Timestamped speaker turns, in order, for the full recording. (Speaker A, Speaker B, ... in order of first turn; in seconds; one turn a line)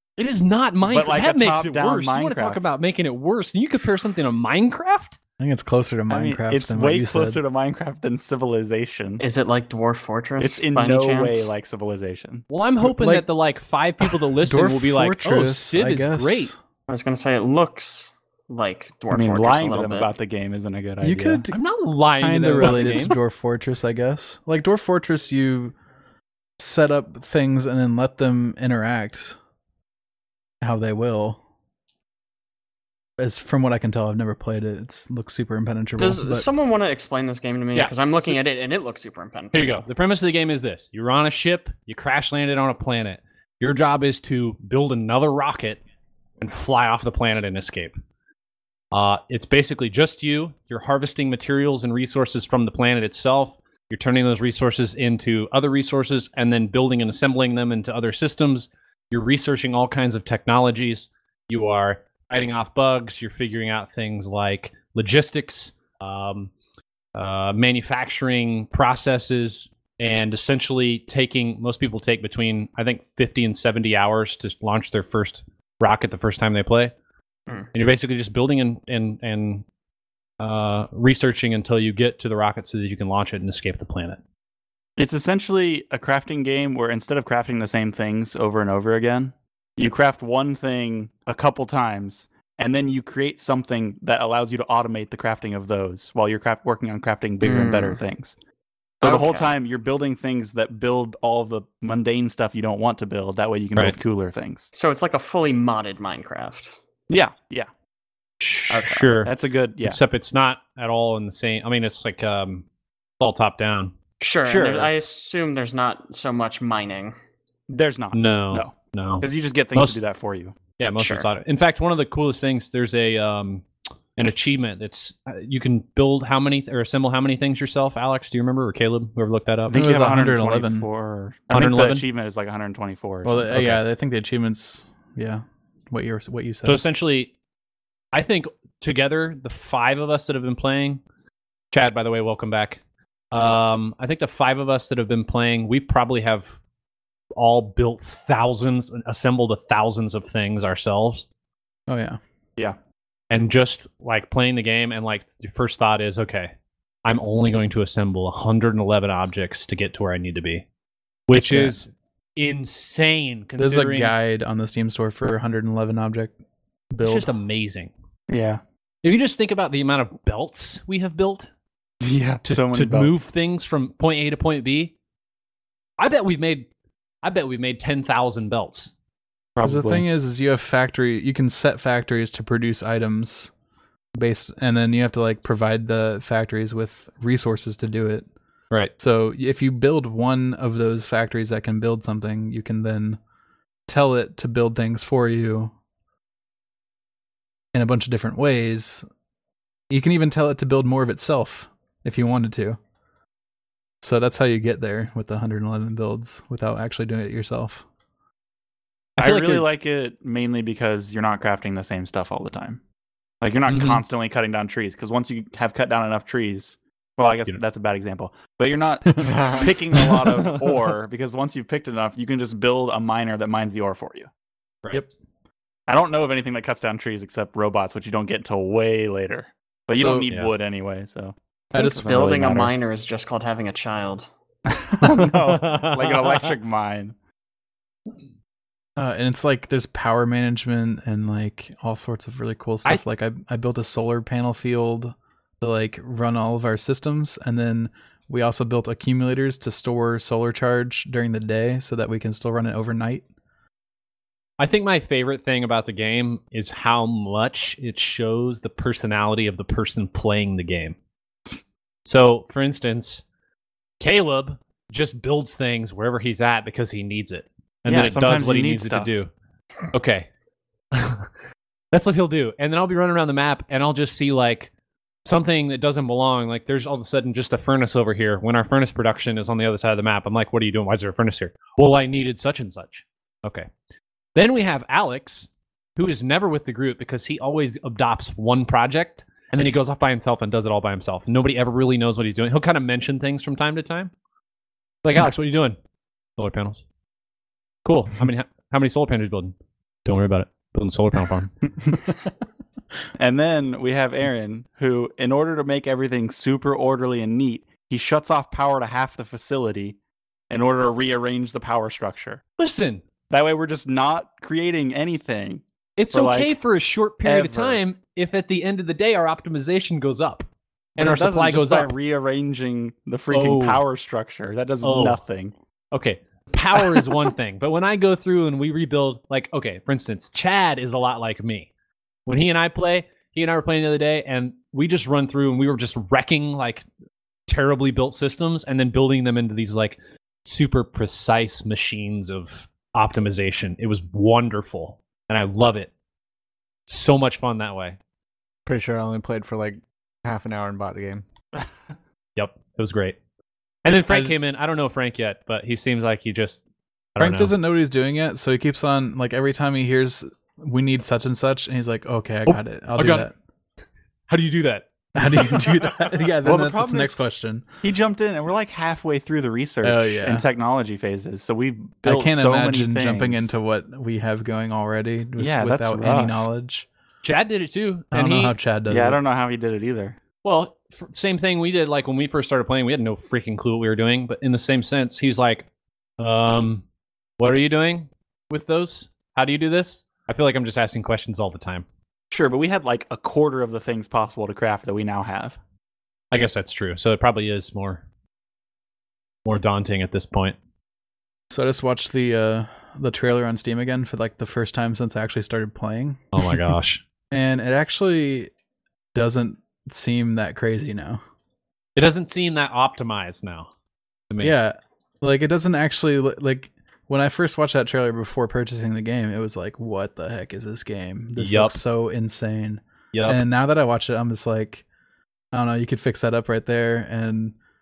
Speaker A: 0.2-5.2
Speaker B: 0.8-2.6
Speaker C: 5.4-7.4
Speaker B: 6.1-9.2
Speaker D: 9.2-11.5
Speaker B: 10.4-12.4
Speaker A: 12.5-16.5
Speaker C: 12.8-13.2
Speaker C: 14.4-16.6
Speaker D: 16.9-20.1
Speaker B: 19.1-21.4
Speaker C: 21.0-21.6
Speaker A: 21.5-23.2
Speaker C: 22.2-25.7
Speaker B: 22.7-22.9
Speaker C: 26.6-29.4
Speaker C: 30.6-31.4
Speaker C: 33.2-36.5
Speaker D: 36.0-39.8
Speaker A: 37.7-38.4
Speaker A: 39.5-45.8
Speaker A: 46.4-48.0
Speaker A: 48.9-66.5
Speaker A: 67.1-76.9
Speaker A: 77.7-79.6
Speaker A: 80.4-84.2
Speaker B: 85.0-98.3
Speaker D: 97.4-98.0
Speaker B: 99.0-104.7
Speaker D: 99.0-99.5
Speaker D: 104.7-106.8
Speaker B: 107.1-107.7
Speaker A: 108.4-109.3
Speaker D: 108.7-109.1
Speaker B: 109.2-110.0
Speaker A: 109.8-112.6
Speaker A: 113.2-113.9
Speaker D: 114.2-117.1
Speaker A: 114.5-114.9
Speaker B: 114.5-114.9
Speaker B: 117.7-120.5
Speaker A: 118.1-120.0
Speaker A: 120.8-129.8
Speaker B: 129.7-133.8
Speaker C: 129.7-130.9
Speaker A: 131.5-132.0
Speaker C: 133.2-136.8
Speaker A: 136.6-137.3
Speaker A: 138.1-141.0
Speaker A: 141.7-142.8
Speaker A: 143.3-146.6
Speaker A: 147.3-151.3
Speaker C: 151.9-152.2
Speaker A: 153.3-156.5
Speaker A: 157.0-160.6
Speaker A: 161.3-164.1
Speaker C: 161.5-161.8
Speaker C: 163.6-166.3
Speaker C: 166.9-167.3
Speaker A: 167.0-167.9
Speaker B: 168.3-168.6
Speaker A: 169.0-171.5
Speaker B: 172.0-173.1
Speaker A: 172.4-174.9
Speaker A: 176.0-176.7
Speaker A: 177.2-178.9
Speaker B: 179.6-180.1
Speaker C: 179.6-183.5
Speaker C: 184.2-188.3
Speaker C: 189.0-193.2
Speaker C: 193.9-195.7
Speaker C: 197.7-199.1
Speaker C: 199.9-202.8
Speaker C: 204.0-207.8
Speaker A: 209.2-209.7
Speaker B: 209.2-212.8
Speaker B: 213.4-224.3
Speaker A: 213.7-214.0
Speaker E: 219.2-220.0
Speaker B: 225.9-232.7
Speaker C: 230.0-230.3
Speaker A: 230.3-230.5
Speaker C: 231.7-232.0
Speaker D: 231.7-234.2
Speaker B: 234.7-237.1
Speaker A: 235.4-236.5
Speaker C: 239.0-253.2
Speaker A: 254.6-261.0
Speaker A: 262.0-263.2
Speaker A: 264.0-269.3
Speaker B: 267.9-269.2
Speaker A: 269.9-270.3
Speaker A: 270.9-271.3
Speaker A: 271.9-274.7
Speaker A: 275.2-283.7
Speaker A: 284.3-294.1
Speaker A: 295.0-295.8
Speaker A: 296.4-296.8
Speaker A: 297.8-301.5
Speaker B: 303.2-310.0
Speaker B: 310.5-312.4
Speaker A: 312.6-313.0
Speaker B: 313.3-316.5
Speaker A: 316.0-321.9
Speaker B: 317.2-317.8
Speaker B: 321.0-325.5
Speaker A: 323.3-323.8
Speaker A: 324.8-325.2
Speaker A: 325.9-331.7
Speaker A: 332.2-336.9
Speaker A: 337.5-345.9
Speaker A: 346.9-348.0
Speaker E: 348.6-351.2
Speaker A: 352.4-353.2
Speaker A: 353.8-356.6
Speaker C: 354.1-354.4
Speaker A: 357.1-357.5
Speaker C: 357.2-363.3
Speaker A: 362.4-363.3
Speaker A: 364.3-365.9
Speaker C: 365.1-367.7
Speaker B: 366.4-367.2
Speaker B: 367.8-373.5
Speaker C: 369.8-370.4
Speaker C: 372.0-376.9
Speaker B: 375.4-376.4
Speaker A: 377.2-378.6
Speaker C: 378.1-379.2
Speaker B: 378.9-380.2
Speaker A: 380.4-385.7
Speaker A: 386.2-386.8
Speaker A: 387.4-391.8
Speaker B: 392.3-395.6
Speaker A: 396.3-398.0
Speaker A: 399.4-400.6
Speaker C: 401.5-406.6
Speaker A: 406.3-407.0
Speaker C: 407.3-408.5
Speaker C: 409.1-411.2
Speaker A: 411.9-413.7
Speaker A: 414.3-414.5
Speaker C: 414.4-424.8
Speaker A: 421.4-421.8
Speaker A: 423.1-423.4
Speaker C: 425.5-427.6